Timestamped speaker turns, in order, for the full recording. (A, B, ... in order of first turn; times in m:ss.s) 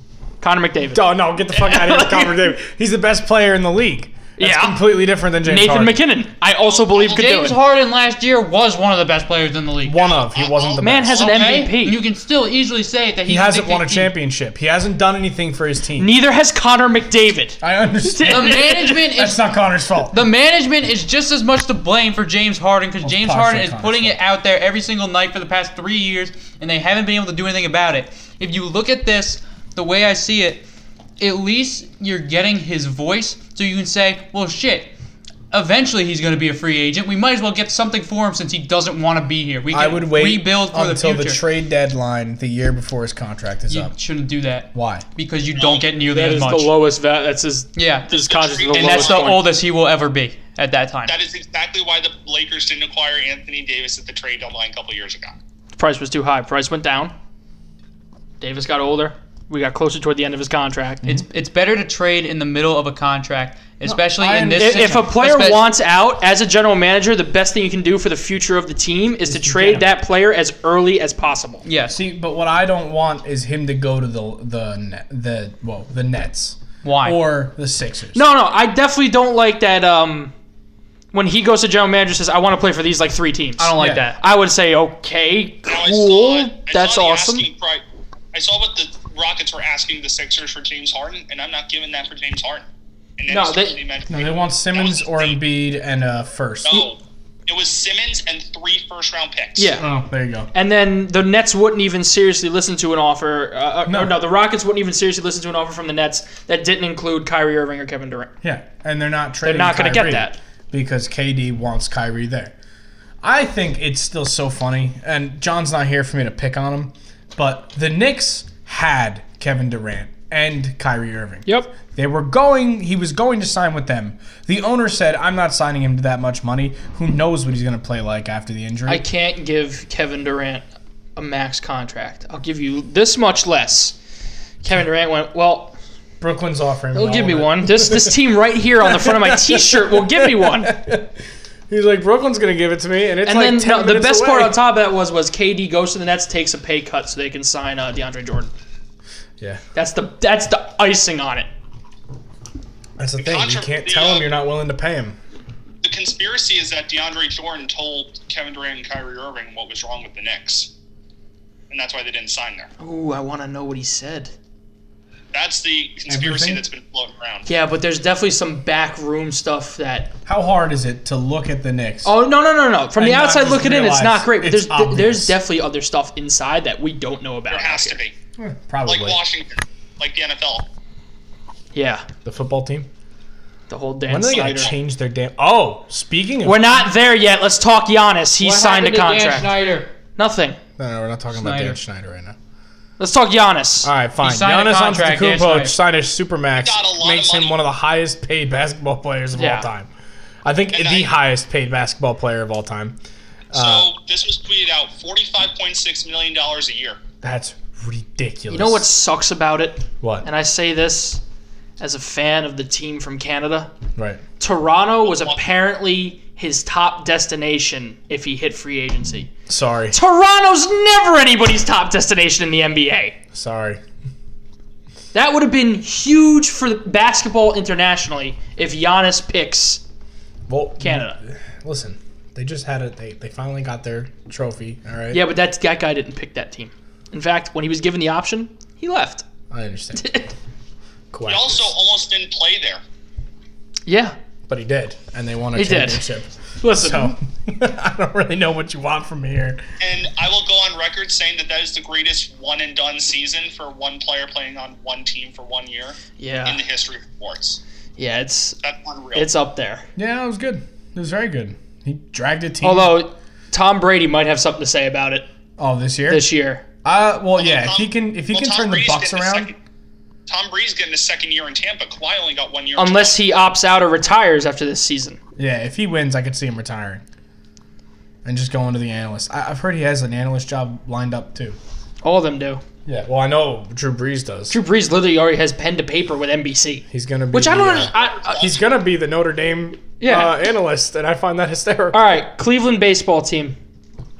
0:00.4-0:02.4 A
0:00.9-0:06.1 B
0:04.4-0:07.6 A
0:06.6-0:07.5 C
0:07.0-0:10.0 D
0:09.8-0:11.3 B
0:09.9-0:11.7 C
0:10.8-0:12.0 A
0:11.2-0:14.1 D
0:13.3-0:16.1 B
0:16.0-0:19.0 A
0:17.6-0:20.3 B
0:18.2-0:19.4 D
0:20.0-0:30.7 D
0:23.0-0:24.2 B
0:31.2-0:34.9 D
0:35.5-0:41.4 D
0:39.7-0:43.9 B
0:43.7-0:46.8 D
0:44.7-0:45.0 B
0:45.6-0:45.9 C
0:46.1-0:49.5 A
0:47.8-0:48.1 D
0:48.1-0:49.4 C
0:48.7-0:51.2 D
0:51.1-0:55.4 C
0:55.8-0:57.1 A
0:58.4-1:01.1 A
1:01.1-1:05.7 D
1:03.8-1:05.1 B
1:04.6-1:11.6 A
1:09.3-1:09.8 B
1:11.6-1:12.0 D
1:11.9-1:18.2 B
1:16.8-1:17.2 D
1:18.1-1:20.3 A
1:21.1-1:27.5 A
1:23.6-1:24.2 D
1:23.8-1:24.1 B
1:25.6-1:32.7 C
1:33.2-1:35.4 C
1:33.3-1:33.8 A
1:34.1-1:36.9 B
1:36.6-1:39.7 C
1:39.6-1:39.8 A
1:39.8-1:40.5 B
1:40.5-1:48.3 A
1:43.9-1:44.2 B
1:48.4-1:52.5 B
1:49.4-1:50.4 A
1:53.2-2:09.0 B
2:01.5-2:01.7 A
2:08.9-2:10.6 A
2:11.2-2:14.0 A
2:14.6-2:15.8 A
2:16.2-2:18.2 B
2:16.9-2:20.8 A
2:18.8-2:24.6 B
2:23.2-2:28.5 A
2:29.8-2:31.5 A
2:33.0-2:35.2 B
2:33.2-2:34.3 C
2:35.8-2:40.7 C
2:41.7-2:42.7 C
2:42.8-2:44.3 A
2:45.3-2:47.5 C
2:46.1-2:46.6 B
2:47.5-2:50.1 A
2:50.3-2:52.1 B
2:52.0-2:58.0 A
2:53.0-2:55.4 B
2:57.5-2:58.2 C
2:58.4-2:59.2 B
2:58.8-3:00.7 C
3:01.7-3:02.0 A
3:02.2-3:02.9 B
3:03.7-3:04.7 A
3:04.1-3:06.8 B
3:04.2-3:04.8 C
3:06.4-3:09.5 A
3:08.4-3:09.9 D
3:10.2-3:10.6 A
3:10.8-3:12.4 B
3:11.3-3:11.8 D
3:13.0-3:13.9 A
3:13.8-3:19.9 B
3:14.2-3:15.8 D
3:16.6-3:17.6 C
3:19.3-3:19.7 A
3:20.4-3:23.0 B
3:20.7-3:21.1 C
3:23.5-3:23.9 B
3:23.5-3:27.0 C
3:27.2-3:28.9 B
3:28.5-3:31.2 A
3:30.0-3:30.3 B
3:31.8-3:33.7 A
3:34.0-3:34.2 B
3:34.4-3:39.3 A
3:35.0-3:35.4 C
3:39.5-3:40.0 B
3:39.9-3:43.2 A
3:43.3-3:43.8 B
3:45.1-3:49.8 A
3:50.5-3:55.2 B
3:50.8-3:51.2 A
3:55.1-3:59.2 A
3:59.5-4:00.1 B
4:00.0-4:00.3 A
4:01.1-4:01.7 B
4:01.3-4:02.8 C
4:03.9-4:04.2 A
4:04.5-4:09.6 B
4:05.6-4:06.0 A
4:06.6-4:07.2 A
4:09.8-4:17.6 C
4:16.2-4:16.6 A
4:18.0-4:18.6 A
4:18.6-4:19.3 C
4:19.1-4:19.8 A
4:20.0-4:23.0 B
4:22.6-4:25.3 A
4:25.6-4:26.3 B
4:26.1-4:26.6 A
4:26.8-4:29.5 B
4:27.4-4:29.6 C
4:30.3-4:33.2 C
4:32.8-4:35.2 A
4:35.4-4:37.0 B
4:38.2-4:41.6 B
4:42.0-4:42.6 A
4:42.9-4:44.6 B
4:44.5-4:48.4 A
4:46.9-4:52.2 B
4:47.8-4:48.6 C
4:50.0-4:50.4 A
4:51.9-4:53.6 A